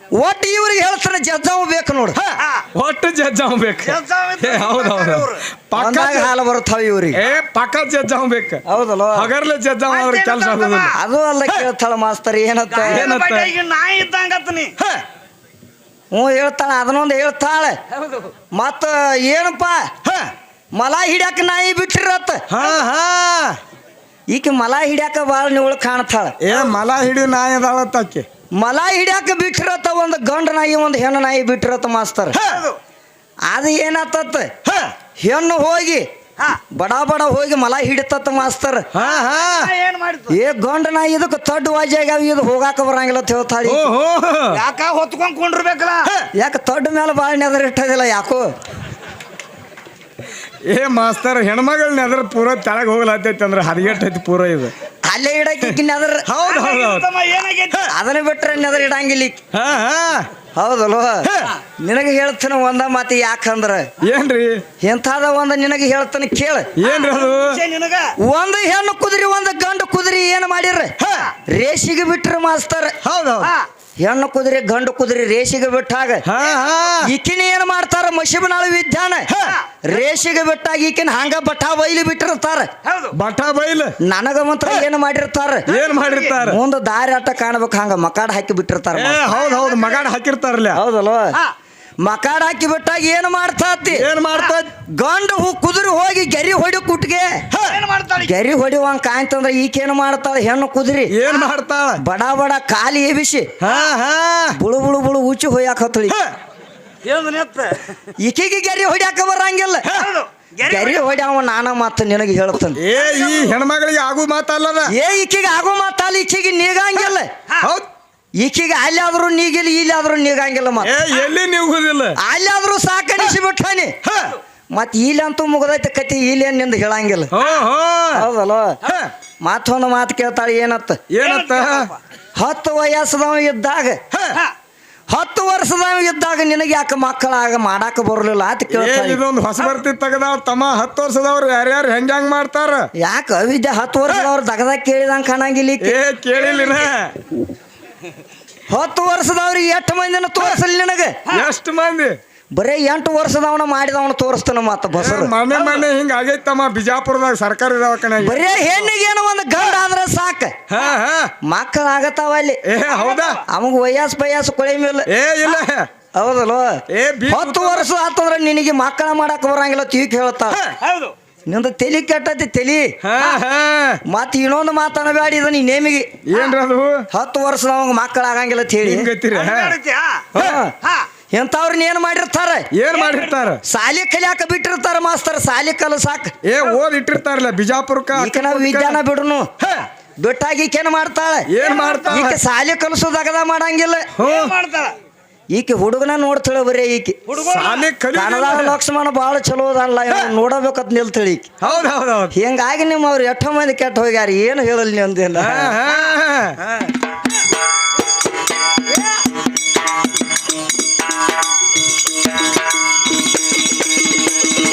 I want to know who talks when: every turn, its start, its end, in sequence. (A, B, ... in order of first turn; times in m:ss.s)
0:00.2-0:02.2 A
0:02.7-0:06.3 B
0:03.8-0:05.4 C
0:05.8-0:07.2 A
0:07.1-0:08.6 B
0:08.6-0:09.3 A
0:09.1-0:10.9 B
0:09.9-0:11.0 C
0:10.9-0:13.1 A
0:12.7-0:14.8 C
0:12.9-0:13.5 B
0:16.1-0:17.8 A
0:17.9-0:18.3 C
0:18.5-0:19.9 A
0:20.0-0:20.3 B
0:20.7-0:22.4 A
0:22.5-0:23.6 B
0:24.3-0:26.4 A
0:26.4-0:28.3 B
0:28.6-0:32.4 A
0:32.4-0:32.8 C
0:33.5-0:34.5 A
0:35.2-0:36.0 A
0:36.7-0:38.8 A
0:38.9-0:39.7 B
0:39.0-0:40.4 C
0:40.3-0:43.9 A
0:43.6-0:44.6 B
0:44.5-0:46.1 C
0:46.4-0:48.5 A
0:50.6-0:54.7 B
0:55.0-0:56.2 A
0:56.3-0:57.1 B
0:56.4-0:57.9 C
0:57.9-0:59.4 A
0:59.5-1:00.3 B
1:00.5-1:01.3 A
1:01.2-1:01.5 B
1:01.8-1:03.9 A
1:04.0-1:04.6 B
1:04.8-1:06.7 A
1:06.8-1:07.6 B
1:06.8-1:08.1 C
1:08.2-1:10.9 A
1:11.5-1:13.0 A
1:13.0-1:13.5 B
1:14.0-1:16.2 A
1:16.2-1:17.1 B
1:17.0-1:19.3 A
1:19.8-1:22.7 A
1:22.8-1:23.1 C
1:23.1-1:23.9 B
1:24.0-1:25.7 A
1:25.7-1:26.6 B
1:26.4-1:29.2 A
1:28.9-1:30.8 B
1:29.5-1:29.7 C
1:30.7-1:31.4 A
1:32.0-1:34.0 A
1:33.9-1:34.7 B
1:35.0-1:37.4 A
1:37.5-1:38.3 C
1:38.2-1:41.1 A
1:41.1-1:42.0 B
1:42.0-1:43.5 A
1:43.6-1:44.6 B
1:44.5-1:46.2 A
1:47.0-1:47.8 C
1:48.2-1:49.9 A
1:49.8-1:51.1 C
1:50.6-1:52.8 A
1:52.8-1:54.9 B
1:53.0-1:53.5 C
1:54.9-1:57.3 A
1:57.6-1:57.9 B
1:58.4-2:01.0 A
2:00.8-2:02.2 B
2:02.2-2:03.9 A
2:04.0-2:04.3 B
2:04.7-2:07.3 A
2:07.3-2:08.2 B
2:08.1-2:08.8 A
2:08.8-2:09.1 B
2:09.4-2:11.0 A
2:11.1-2:11.9 B
2:11.2-2:11.9 C
2:12.4-2:14.0 A
2:14.1-2:14.4 B
2:15.1-2:19.2 A
2:18.7-2:22.9 B
2:23.0-2:26.0 A
2:25.8-2:27.2 B
2:28.7-2:31.2 A
2:31.3-2:32.2 B
2:32.5-2:35.3 A
2:35.0-2:38.5 B
2:38.2-2:40.6 A
2:40.7-2:41.3 B
2:41.4-2:42.6 A
2:42.6-2:43.4 B
2:43.5-2:45.1 A
2:45.1-2:45.9 B
2:46.1-2:50.6 A
2:46.9-2:47.9 B
2:50.8-2:51.1 C
2:51.5-2:52.9 A
2:53.0-2:54.0 B
2:54.1-2:56.1 A
2:56.2-2:57.1 B
2:57.1-2:59.1 A
2:58.8-2:59.8 B
2:59.3-3:00.3 C
3:00.3-3:00.6 B
3:00.4-3:00.7 A
3:01.3-3:02.7 A
3:02.7-3:03.6 B
3:03.0-3:03.3 C
3:03.6-3:06.3 A
3:06.4-3:09.0 B
3:08.1-3:09.5 A
3:10.2-3:11.5 A
3:11.5-3:12.4 B
3:12.1-3:14.1 A
3:14.2-3:14.5 B
3:14.2-3:14.9 C
3:15.5-3:17.2 A
3:17.3-3:17.9 C
3:17.4-3:18.8 B
3:18.1-3:21.5 A
3:21.6-3:22.3 B
3:22.3-3:25.9 A
3:25.4-3:26.6 B